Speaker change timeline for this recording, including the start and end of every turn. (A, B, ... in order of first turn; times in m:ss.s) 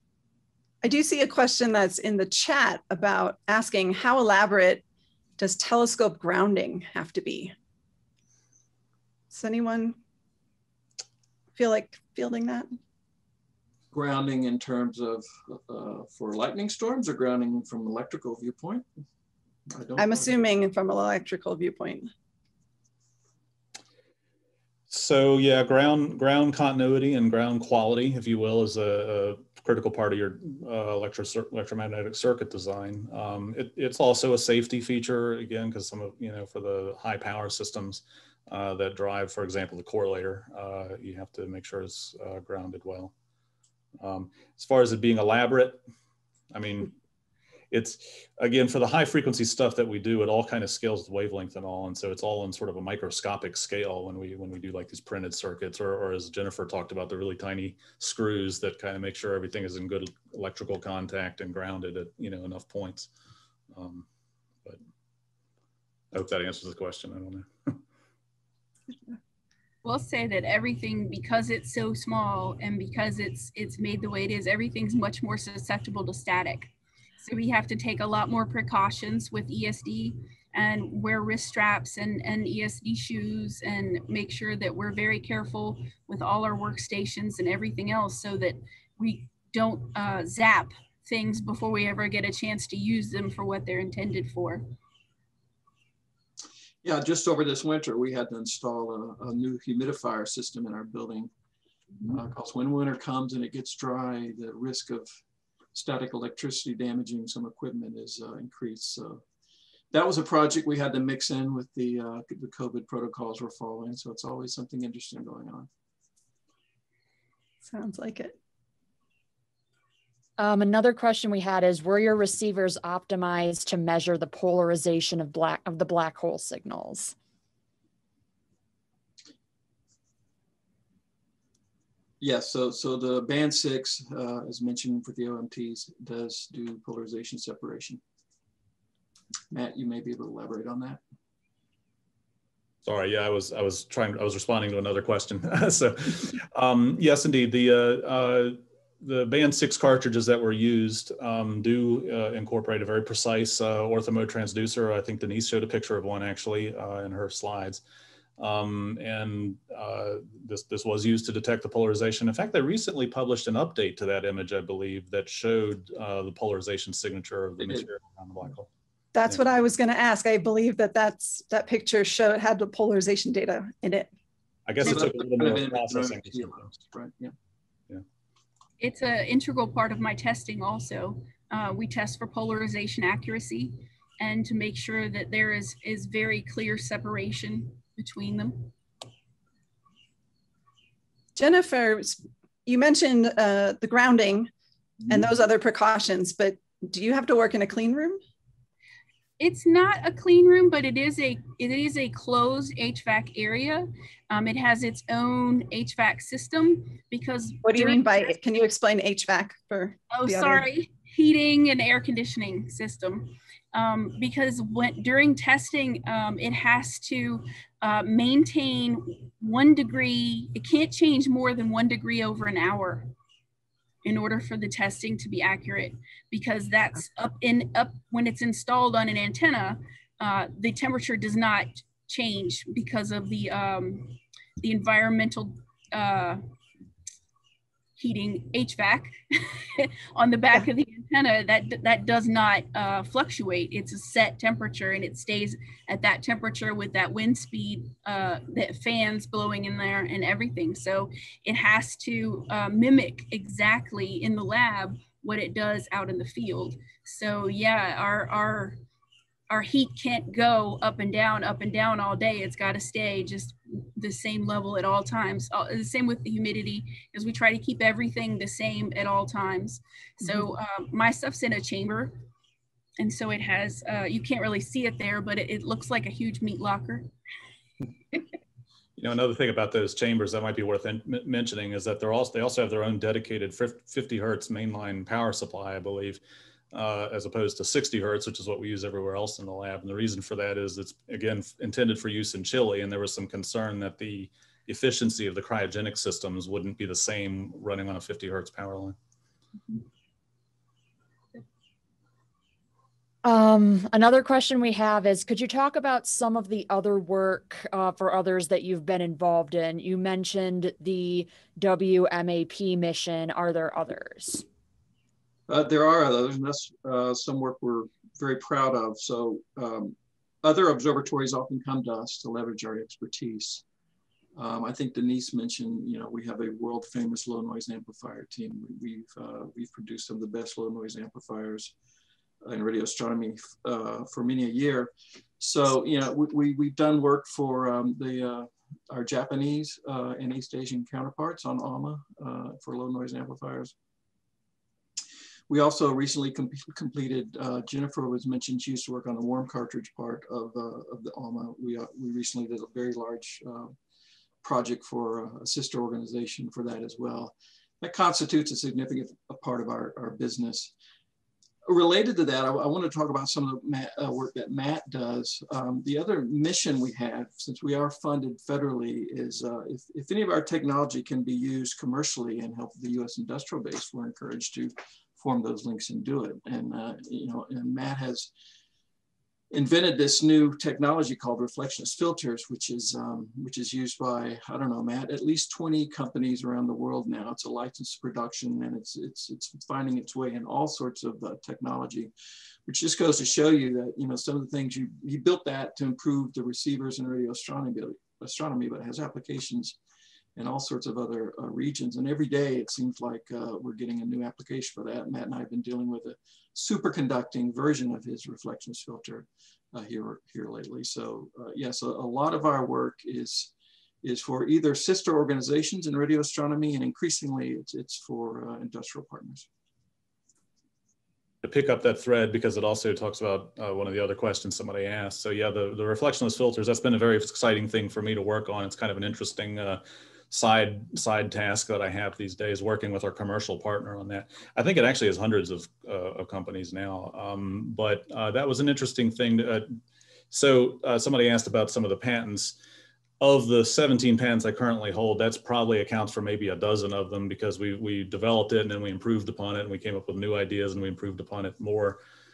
0:00.8-0:04.8 A
0:05.4-0:07.5 A
0:09.3-0:10.0 A
0:11.6-0:12.7 A
0:13.9-0:18.9 B
0:19.7-0:20.3 B
0:20.0-0:22.1 A
0:24.9-0:43.1 C
0:44.0-0:45.8 C
0:46.5-0:46.9 C
0:47.7-1:03.1 C
1:03.7-1:04.1 C
1:06.1-1:07.8 C
1:09.8-1:34.7 D
1:36.8-1:41.3 B
1:42.1-1:45.1 B
1:45.7-1:49.2 B
1:49.9-1:55.7 B
1:57.6-1:58.4 A
2:00.4-2:07.1 E
2:12.2-2:18.0 B
2:19.5-2:21.0 B
2:22.8-2:37.8 C
2:38.4-2:48.7 C
2:47.6-2:47.8 B
2:49.1-2:54.1 A
2:54.7-2:56.8 C
2:54.8-2:57.3 B
2:58.8-3:08.7 D
3:11.4-3:14.5 A
3:15.1-3:18.2 A
3:19.4-3:28.4 D
3:27.6-3:30.6 A
3:30.1-3:43.1 D
3:44.0-3:56.4 D
3:58.0-4:18.8 D
4:19.5-4:32.2 D
4:33.0-4:37.1 D
4:39.0-4:59.0 C
5:03.2-5:14.4 E
5:15.5-5:23.6 B
5:24.3-5:31.7 B
5:32.4-5:43.7 B
5:45.5-5:53.7 B
5:54.4-6:00.7 B
6:01.6-6:18.3 B
6:19.5-6:32.1 B
6:32.7-6:39.8 B
6:40.4-6:53.5 B
6:54.0-6:59.5 B
7:01.4-7:19.7 C
7:20.3-7:22.6 C
7:23.2-7:32.0 C